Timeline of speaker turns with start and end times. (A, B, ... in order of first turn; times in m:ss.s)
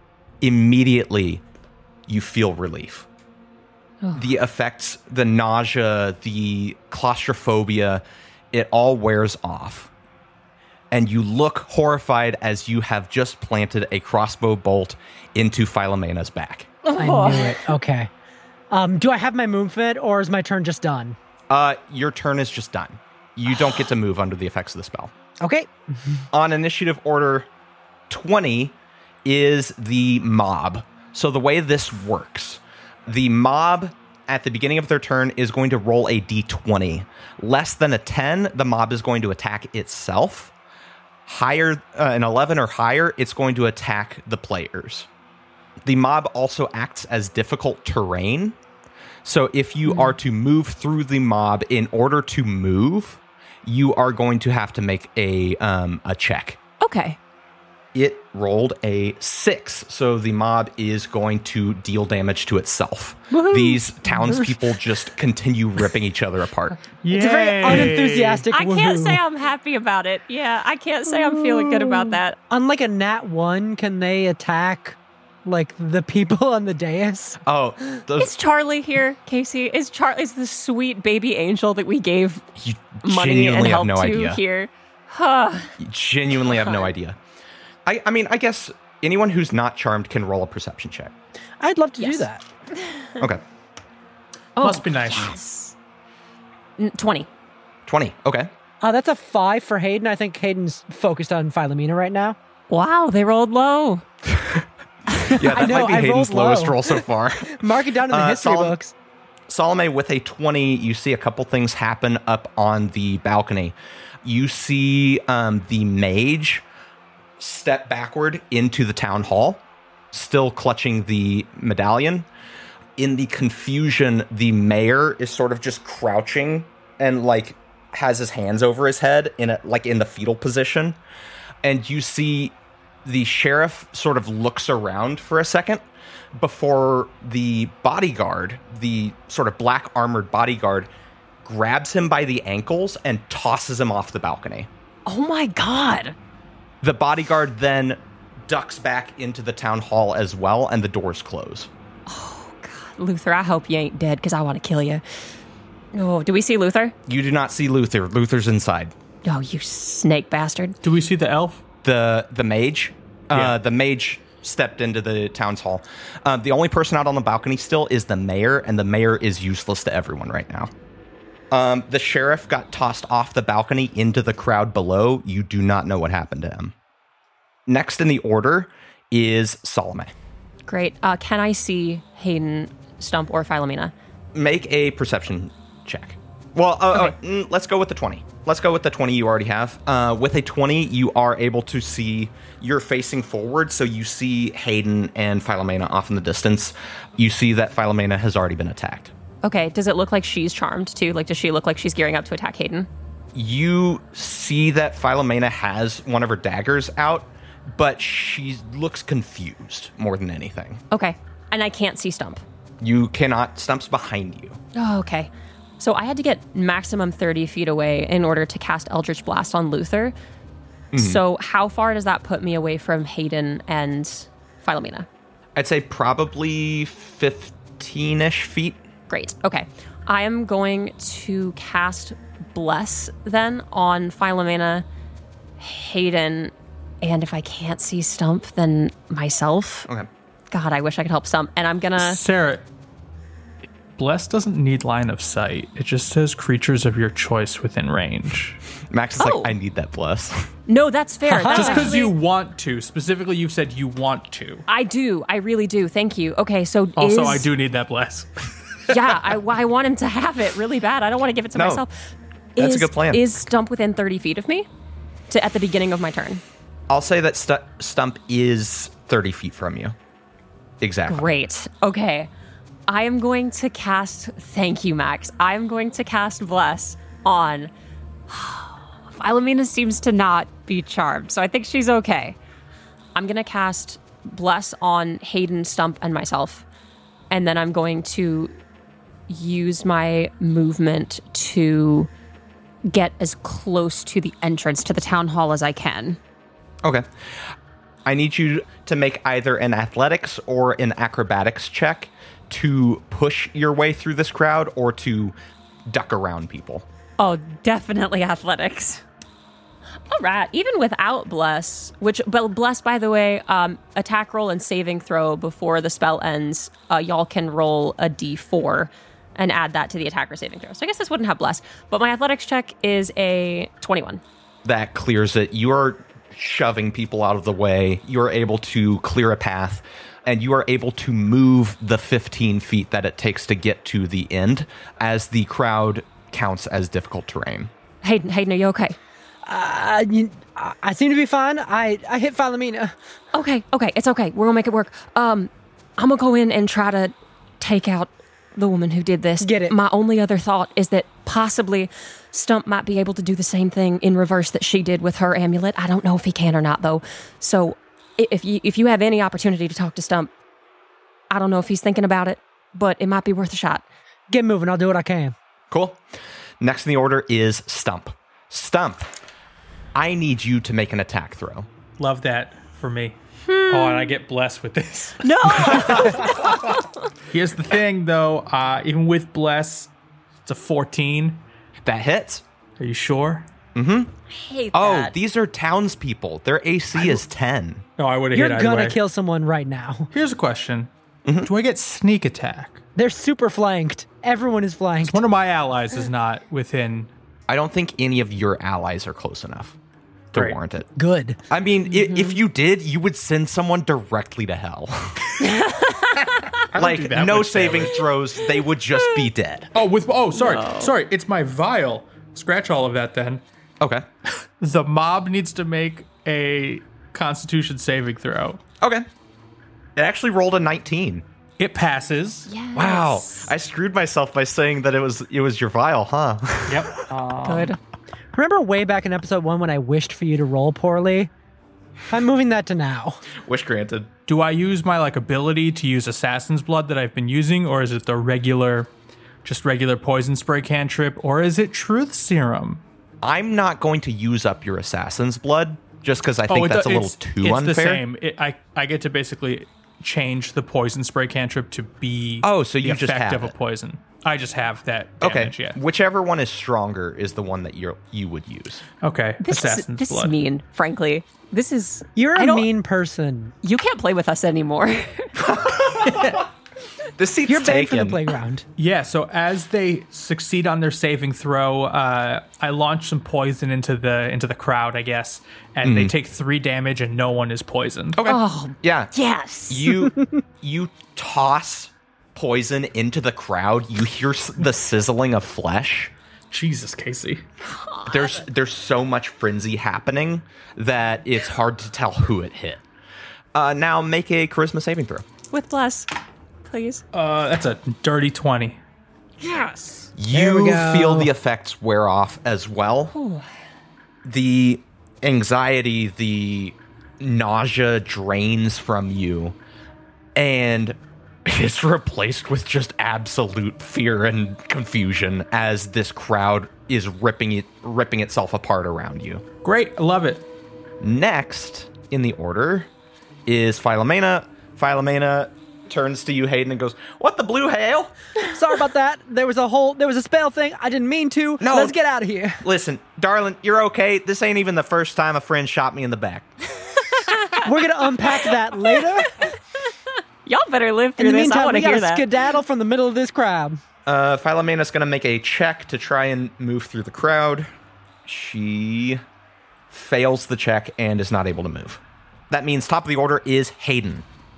0:00.4-0:01.4 A
0:02.1-0:03.1 A
0:04.0-0:04.3 B
0:04.2-0:09.9 A
0:10.9-0:16.7 A
0:16.8-0:17.6 B
0:17.0-0:18.1 C
0:18.7-0:21.2 C
0:21.5-0:25.1 A
0:25.4-0:26.3 C
0:26.3-0:27.5 A
0:28.1-0:40.5 A
0:41.3-0:45.1 A
0:45.8-0:48.6 A
0:49.2-0:56.6 A
0:49.9-0:50.1 B
0:56.8-0:57.2 B
0:57.9-1:06.8 A
1:03.3-1:03.8 B
1:07.0-1:08.4 D
1:07.1-1:09.2 C
1:08.5-1:12.4 B
1:12.5-1:17.4 C
1:17.4-1:18.4 A
1:18.2-1:22.5 B
1:22.6-1:24.4 A
1:23.0-1:25.7 B
1:25.8-1:27.2 A
1:27.9-1:31.1 A
1:31.6-1:32.4 C
1:32.0-1:32.2 B
1:34.6-1:35.7 B
1:34.6-1:35.4 D
1:36.8-1:37.3 B
1:37.9-1:38.5 A
1:38.8-1:42.4 C
1:42.7-1:44.0 B
1:44.3-1:44.6 A
1:45.3-1:48.8 A
1:45.3-1:48.9 C
1:49.5-1:56.6 A
1:57.4-1:59.6 A
2:00.1-2:02.3 A
2:03.0-2:11.0 A
2:11.6-2:15.8 A
2:16.3-2:20.9 A
2:21.4-2:24.7 A
2:25.1-2:26.2 B
2:26.8-2:31.7 A
2:32.1-2:35.0 B
2:35.9-2:37.0 B
2:37.1-2:38.9 A
2:39.2-2:40.8 B
2:40.8-2:41.6 D
2:41.8-2:50.7 A
2:43.3-2:43.6 D
2:51.5-2:56.7 A
2:57.7-3:00.1 A
3:00.7-3:03.9 B
3:04.3-3:19.1 A
3:19.4-3:22.9 B
3:23.3-3:30.8 A
3:30.9-3:32.4 B
3:32.8-3:34.6 A
3:34.8-3:40.2 B
3:40.9-3:41.2 A
3:41.0-3:45.1 B
3:45.6-3:48.8 A
3:49.1-3:54.9 B
3:55.6-3:59.9 B
4:00.5-4:02.2 B
4:02.0-4:02.6 D
4:04.0-4:08.6 D
4:08.9-4:10.5 A
4:09.2-4:09.5 B
4:10.7-4:12.2 B
4:11.3-4:11.9 C
4:11.4-4:14.6 D
4:14.7-4:17.5 B
4:17.0-4:18.9 D
4:18.9-4:21.9 B
4:21.5-4:21.8 A
4:22.6-4:24.7 B
4:22.6-4:23.3 A
4:25.3-4:26.4 B
4:26.9-4:30.0 A
4:30.8-4:31.3 A
4:31.1-4:32.3 B
4:32.9-4:37.7 B
4:38.3-4:42.4 B
4:43.2-4:46.6 B
4:47.3-4:48.6 B
4:49.3-4:52.1 B
4:52.9-4:56.2 B
4:58.0-5:05.4 A
5:05.9-5:06.9 A
5:07.2-5:09.0 B
5:10.1-5:24.2 B
5:24.6-5:37.7 A
5:38.0-5:39.0 B
5:39.4-5:42.9 C
5:43.3-6:00.3 B
5:49.4-5:49.8 C
6:01.3-6:03.8 B
6:04.3-6:05.3 C
6:05.7-6:06.0 A
6:06.6-6:09.1 A
6:10.0-6:11.7 A
6:12.0-6:13.2 D
6:13.5-6:14.1 B
6:13.7-6:16.6 D
6:15.2-6:16.9 B
6:17.3-6:19.9 D
6:20.4-6:21.4 D
6:21.8-6:22.4 A
6:22.8-6:23.5 D
6:23.8-6:24.1 A
6:24.3-6:25.2 B
6:24.7-6:27.8 A
6:28.0-6:29.0 D
6:28.3-6:30.1 C
6:30.1-6:30.9 D
6:31.2-6:31.5 A
6:31.4-6:32.8 D
6:33.0-6:35.2 C
6:35.0-6:37.1 D
6:37.5-6:39.8 A
6:40.3-6:40.9 A
6:41.0-6:41.4 C
6:41.5-6:45.4 A
6:45.4-6:46.5 B
6:46.5-6:48.1 D
6:46.7-6:49.7 A
6:49.7-6:53.4 D
6:50.4-6:50.9 B
6:53.8-6:54.0 A
6:54.6-6:58.6 D
6:58.8-6:59.1 A
7:00.0-7:01.2 A
7:01.6-7:02.5 D
7:02.5-7:03.5 B
7:02.8-7:07.0 A
7:06.7-7:07.7 D
7:07.4-7:07.8 B
7:08.4-7:11.3 C
7:12.1-7:13.2 C
7:13.4-7:14.1 A
7:14.3-7:18.9 D
7:19.4-7:22.8 D
7:23.2-7:28.0 A
7:26.5-7:35.8 D
7:32.4-7:33.5 A
7:35.2-7:38.8 A
7:39.0-7:40.3 D
7:39.4-7:42.7 B
7:42.2-7:43.5 C
7:43.6-7:45.3 B
7:45.4-7:46.5 A
7:47.2-7:48.2 A
7:47.5-7:48.6 C
7:48.8-7:58.2 D
7:55.8-7:56.1 A
7:58.2-7:59.1 A
7:58.2-7:59.9 B
7:59.7-8:06.1 A
8:06.5-8:07.4 D
8:07.7-8:08.4 B
8:08.1-8:12.8 A
8:13.5-8:15.2 A
8:15.5-8:16.1 B
8:16.6-8:17.0 B
8:17.1-8:18.8 D
8:19.4-8:20.1 B
8:20.2-8:23.1 A
8:20.3-8:21.3 C
8:23.1-8:23.4 B
8:24.2-8:29.6 A
8:30.4-8:39.4 A
8:39.6-8:40.4 D
8:41.0-8:42.9 A
8:43.5-8:48.1 A
8:48.5-8:52.6 C
8:51.6-8:52.0 A
8:52.6-8:56.5 A
8:57.3-8:57.7 B
8:57.6-8:59.4 C
8:58.3-8:59.5 B
9:00.5-9:02.2 B
9:01.2-9:03.8 C
9:04.1-9:07.7 A
9:08.2-9:09.2 A
9:09.9-9:14.2 A